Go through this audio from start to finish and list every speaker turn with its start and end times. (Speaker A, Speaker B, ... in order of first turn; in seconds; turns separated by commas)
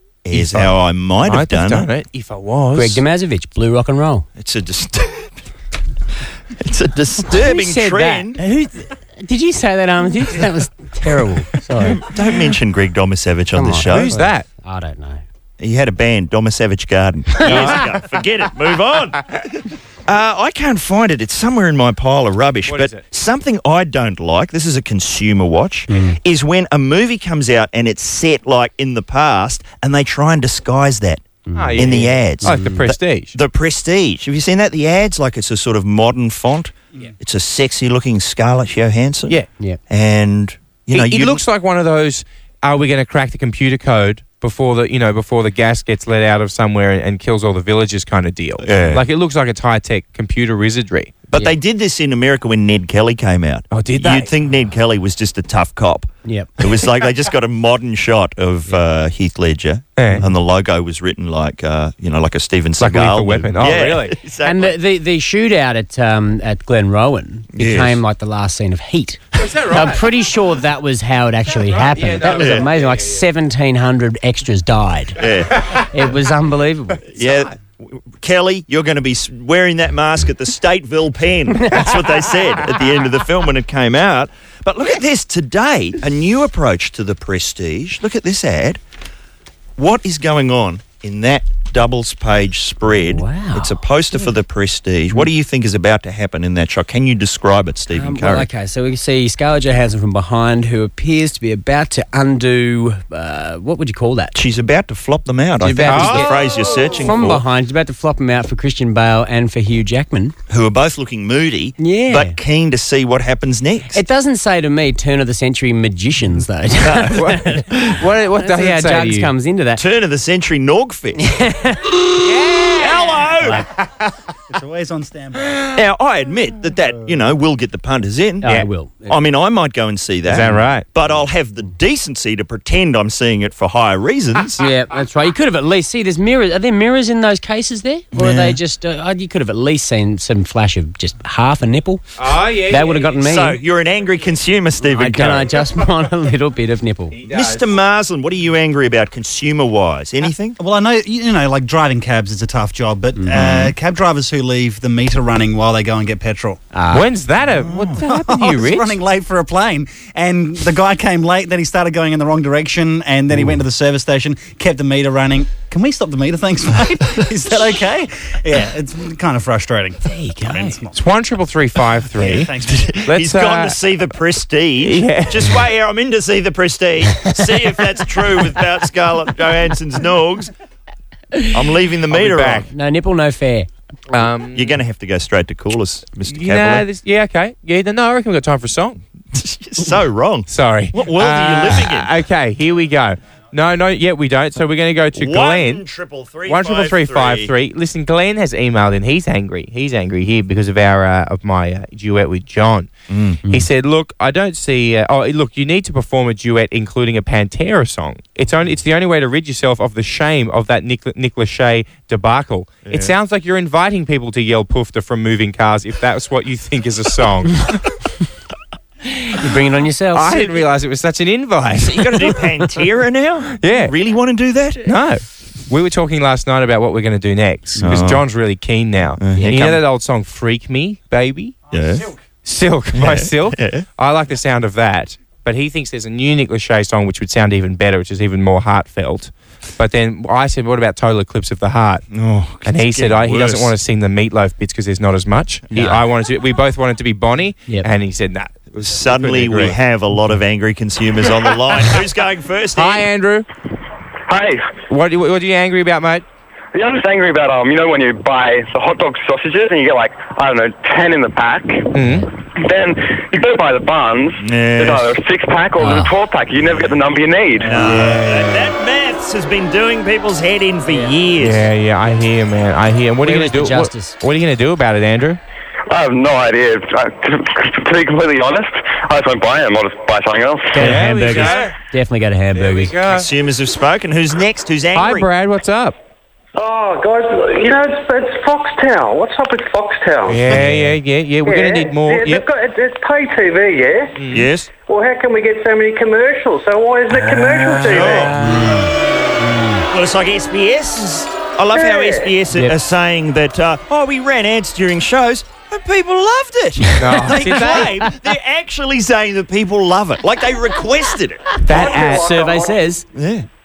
Speaker A: 0.2-1.9, Speaker B: 0.3-0.7, Speaker B: 1.2-3.0, Speaker C: 2.7-4.2, Speaker A: 4.4-5.4, Speaker A: 6.5-8.4, Speaker C: 7.2-12.1, Speaker A: 11.8-14.2, Speaker C: 13.5-15.2, Speaker B: 13.9-14.4, Speaker A: 15.6-32.6, Speaker C: 17.4-17.8, Speaker B: 17.4-17.8, Speaker B: 22.6-23.0, Speaker C: 25.9-26.1, Speaker C: 31.4-33.0, Speaker B: 31.5-33.3, Speaker A: 33.3-41.4, Speaker B: 40.9-51.3, Speaker A: 48.6-49.0, Speaker A: 51.3-64.8, Speaker B: 53.7-54.3, Speaker C: 56.2-56.6, Speaker B: 60.0-60.2, Speaker B: 62.8-64.2, Speaker C: 64.4-75.2, Speaker A: 67.5-68.0, Speaker B: 69.4-70.1, Speaker B: 71.5-73.2, Speaker A: 72.4-72.7, Speaker A: 75.2-75.7, Speaker B: 75.5-75.8, Speaker C: 75.8-77.0, Speaker A: 77.1-88.8, Speaker B: 77.1-77.5, Speaker C: 81.6-81.9, Speaker A: 89.8-98.5, Speaker C: 92.9-93.8, Speaker C: 97.9-104.3, Speaker A: 104.3-107.4, Speaker C: 105.6-110.3, Speaker B: 105.8-106.6, Speaker A: 110.5-114.0, Speaker C: 111.8-112.3, Speaker C: 113.9-119.8, Speaker A: 116.8-117.2, Speaker B: 117.1-119.3, Speaker A: 119.8-121.2, Speaker C: 121.2-122.2, Speaker B: 122.2-123.5, Speaker A: 122.7-123.6, Speaker D: 124.5-125.7, Speaker A: 125.7-128.5, Speaker C: 128.4-129.2, Speaker A: 129.1-134.6, Speaker B: 130.3-130.8, Speaker C: 134.6-143.6, Speaker A: 138.1-138.6, Speaker B: 142.2-143.2, Speaker A: 143.2-145.5, Speaker C: 144.9-147.1, Speaker B: 147.1-147.7, Speaker A: 147.3-150.6, Speaker D: 150.6-156.6, Speaker A: 153.3-153.8, Speaker C: 156.7-157.1, Speaker B: 156.9-159.0, Speaker D: 157.6-170.9, Speaker C: 163.3-163.6, Speaker C: 170.0-170.8, Speaker B: 170.9-172.5, Speaker D: 172.2-172.9, Speaker A: 172.6-180.5, Speaker B: 173.1-173.8, Speaker B: 174.8-175.5, Speaker A: 181.5-182.7, Speaker B: 182.1-182.7, Speaker C: 182.7-183.7, Speaker B: 184.1-184.8, Speaker A: 184.5-186.8, Speaker B: 186.2-189.0, Speaker A: 189.3-192.1, Speaker B: 190.5-195.8, Speaker A: 195.1-197.5, Speaker B: 196.5-202.9, Speaker A: 203.1-203.4, Speaker B: 203.4-217.8, Speaker A: 212.8-213.1, Speaker B: 219.1-219.4, Speaker C: 219.3-220.5, Speaker B: 220.1-222.4, Speaker A: 221.7-225.0, Speaker B: 223.6-223.9, Speaker B: 224.8-231.6, Speaker C: 227.8-228.1, Speaker A: 227.8-228.2, Speaker A: 229.2-229.8, Speaker A: 231.7-232.1, Speaker B: 232.4-242.1, Speaker A: 232.9-233.8, Speaker A: 242.1-243.7, Speaker B: 242.6-249.8, Speaker C: 245.7-246.0, Speaker A: 248.7-253.1, Speaker B: 252.8-253.5, Speaker E: 254.3-254.7, Speaker B: 254.9-256.2, Speaker E: 256.7-261.9, Speaker B: 261.9-262.3, Speaker E: 262.5-267.8, Speaker A: 264.4-265.2, Speaker C: 265.8-266.1, Speaker A: 266.5-267.0, Speaker A: 267.6-271.6, Speaker C: 267.7-268.1, Speaker B: 267.8-268.7, Speaker C: 270.9-271.1, Speaker B: 271.4-275.4, Speaker C: 273.2-274.2, Speaker E: 275.9-280.8, Speaker C: 280.7-282.9, Speaker B: 280.8-281.7, Speaker A: 281.2-281.7, Speaker B: 282.5-283.3, Speaker A: 283.1-285.3, Speaker B: 284.9-285.9, Speaker F: 286.6-290.5, Speaker B: 290.3-292.4, Speaker A: 290.5-290.8, Speaker C: 290.6-290.9, Speaker F: 291.4-294.2, Speaker B: 294.2-294.5, Speaker A: 294.3-294.7, Speaker F: 294.8-298.3, Speaker B: 297.8-298.9, Speaker A: 297.8-298.3, Speaker C: 298.4-299.7, Speaker A: 299.9-311.6, Speaker F: 301.7-302.3, Speaker C: 306.9-307.8, Speaker B: 307.0-308.0, Speaker C: 311.6-313.1, Speaker B: 311.6-312.3, Speaker F: 311.7-312.8, Speaker A: 313.1-313.4